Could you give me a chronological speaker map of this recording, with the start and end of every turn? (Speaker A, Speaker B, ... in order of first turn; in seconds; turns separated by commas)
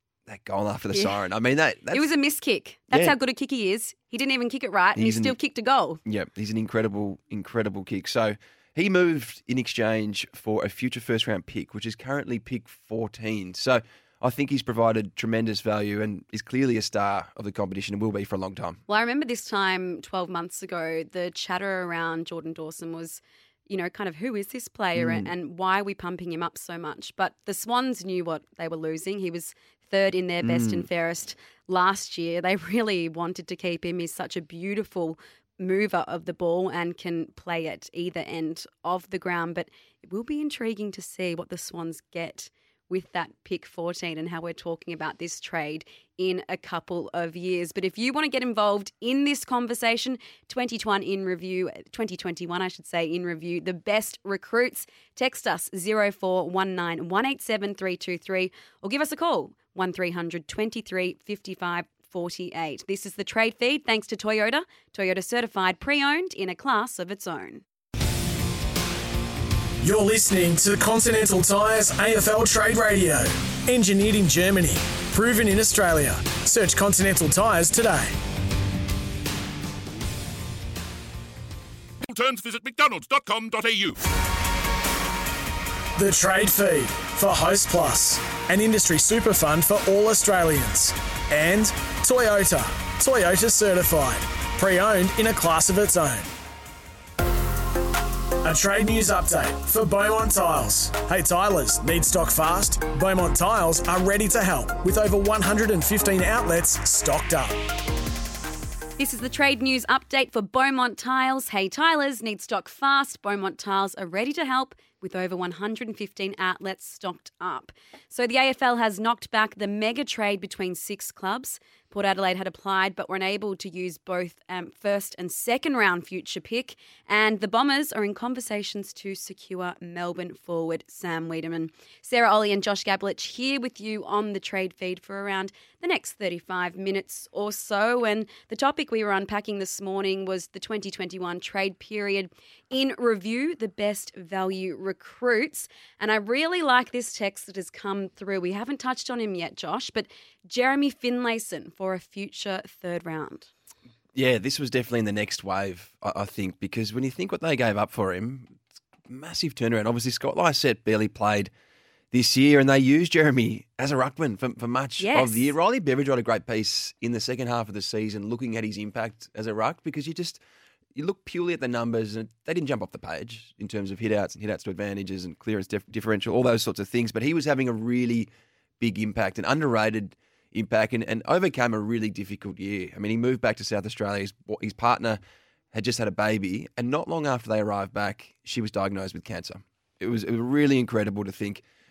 Speaker A: 0.3-2.1, Speaker B: 0.9-1.2, Speaker B: 1.9-6.0, Speaker A: 5.0-5.4, Speaker A: 6.0-18.8, Speaker B: 18.9-67.6, Speaker A: 24.9-25.3, Speaker A: 30.4-30.9, Speaker C: 69.8-78.1, Speaker D: 82.0-84.0, Speaker C: 86.0-96.3, Speaker C: 98.4-107.6, Speaker B: 109.0-153.5, Speaker A: 154.2-161.5, Speaker A: 162.1-170.4, Speaker B: 165.0-165.5, Speaker A: 170.9-185.2, Speaker A: 185.7-191.6